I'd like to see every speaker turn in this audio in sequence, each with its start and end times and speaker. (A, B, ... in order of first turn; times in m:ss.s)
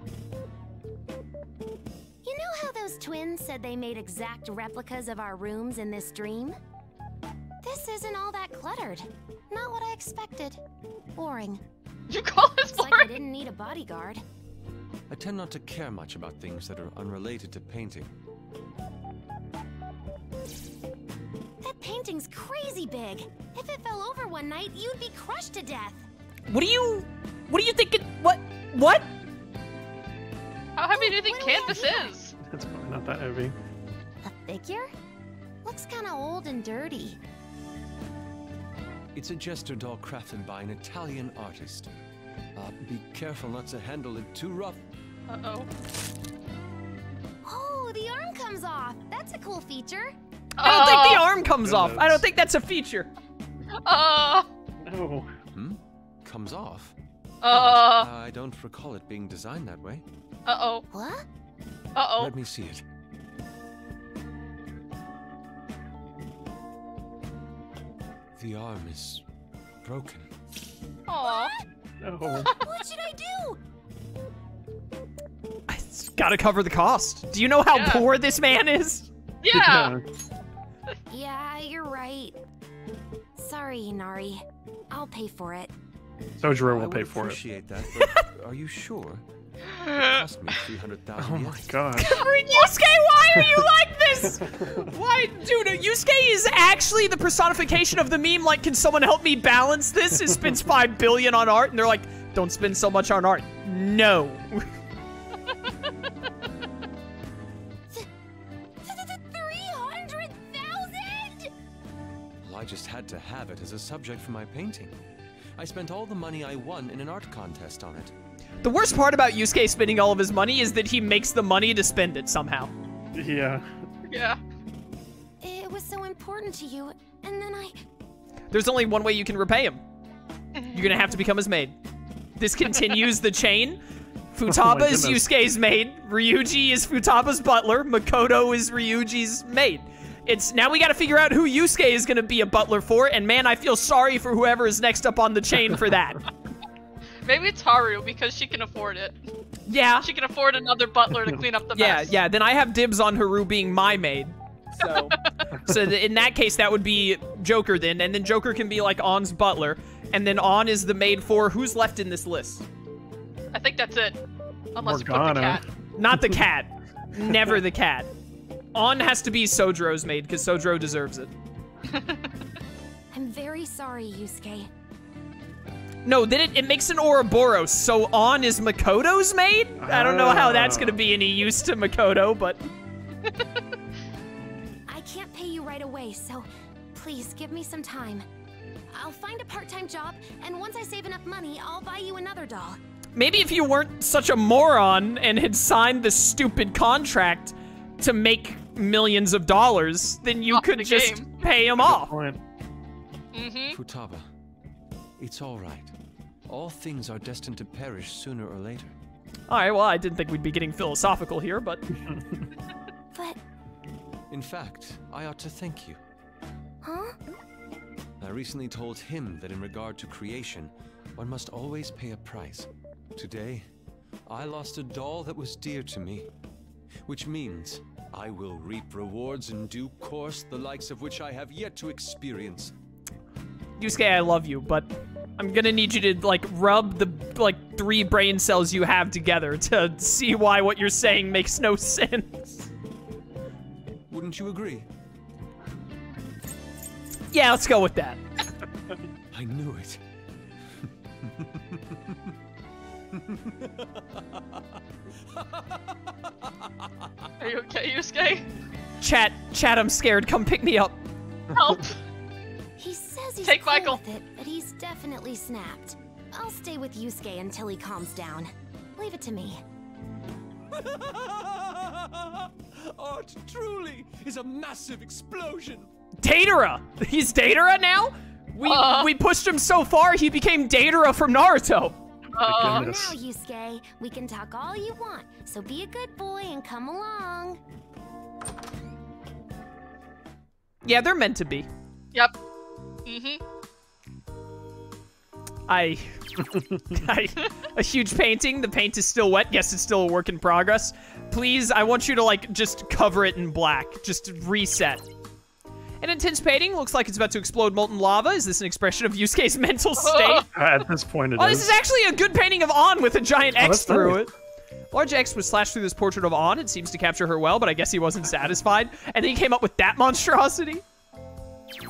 0:02.2-0:06.6 A
0:07.6-0:10.6 A
0:11.1-0:11.6 A
0:12.1-0:13.2 B
0:12.7-0:14.2 A
0:15.1-0:18.1 C
0:21.6-0:26.0 A
0:26.5-0:29.1 D
0:30.8-0:32.3 B
0:30.9-0:32.2 A
0:32.4-0:33.5 E
0:34.2-0:34.9 A
0:35.6-0:37.2 A
0:39.1-0:41.9 C
0:42.5-0:44.8 C
0:45.3-0:45.7 B
0:47.4-0:50.1 A
0:50.6-0:51.3 B
0:50.6-0:53.1 D
0:51.4-0:52.2 E
0:53.8-0:54.5 B
0:54.8-0:55.3 E
0:55.5-1:00.0 C
0:57.4-0:58.1 B
1:00.4-1:00.9 B
1:00.9-1:01.2 A
1:02.0-1:02.3 B
1:02.1-1:02.8 C
1:08.4-1:09.2 C
1:09.8-1:10.3 C
1:11.1-1:11.6 B
1:11.2-1:11.6 A
1:12.0-1:12.5 E
1:12.2-1:13.6 A
1:12.4-1:12.8 B
1:15.7-1:19.1 D
1:17.7-1:18.1 B
1:19.4-1:19.9 B
1:19.5-1:20.0 E
1:21.1-1:22.4 A
1:23.4-1:25.7 A
1:26.4-1:27.4 E
1:26.5-1:29.2 C
1:29.8-1:31.7 C
1:31.2-1:32.2 E
1:31.9-1:44.7 D
1:33.3-1:33.6 E
1:34.4-1:34.9 E
1:48.8-1:51.5 A
1:52.4-1:54.9 C
1:55.6-1:58.1 C
1:58.6-2:02.7 D
2:03.1-2:03.7 E
2:04.1-2:04.4 B
2:05.4-2:07.8 A
2:08.5-2:09.8 D
2:10.7-2:11.8 D
2:12.4-2:13.8 D
2:14.3-2:26.2 D
2:14.5-2:15.3 E
2:27.2-2:29.2 B
2:29.6-2:30.1 D
2:30.0-2:32.2 B
2:31.7-2:42.6 D
2:34.8-2:35.4 B
2:43.5-2:44.2 B
2:44.8-2:45.6 B
2:44.8-2:46.4 E
2:45.9-2:48.1 D
2:48.7-2:51.3 D
2:51.8-2:52.3 B
2:53.1-2:54.7 A
2:56.0-3:02.6 D
2:59.8-3:01.0 E
3:04.9-3:08.2 A
3:08.9-3:12.8 A
3:13.2-3:22.2 D
3:20.5-3:21.6 B
3:21.8-3:22.4 E
3:23.3-3:23.8 B
3:23.7-3:24.2 C
3:25.2-3:25.9 C
3:26.5-3:28.9 C
3:29.5-3:31.8 D
3:32.1-3:32.4 E
3:33.1-3:33.4 A
3:34.3-3:36.0 C
3:36.8-3:37.1 A
3:38.2-3:43.6 C
3:44.3-3:46.3 C
3:47.0-3:52.7 C
3:53.8-4:02.7 D
4:04.1-4:04.9 C
4:07.3-4:08.2 D
4:09.3-4:10.0 C
4:11.4-4:12.0 C
4:13.1-4:14.4 C
4:17.4-4:18.5 B
4:19.0-4:21.0 D
4:21.5-4:22.0 B
4:22.8-4:29.6 A
4:23.4-4:24.0 B
4:30.7-4:35.9 C
4:36.2-4:42.0 D
4:38.6-4:39.1 B
4:42.4-4:42.9 B
4:42.4-4:43.1 E
4:42.7-4:47.6 A
4:50.8-4:51.7 D
4:53.0-4:53.4 B
4:55.7-5:05.1 D
5:06.0-5:10.5 D
5:10.0-5:10.4 B
5:10.5-5:11.8 E
5:11.4-5:14.3 D
5:13.6-5:14.2 E
5:14.9-5:20.8 D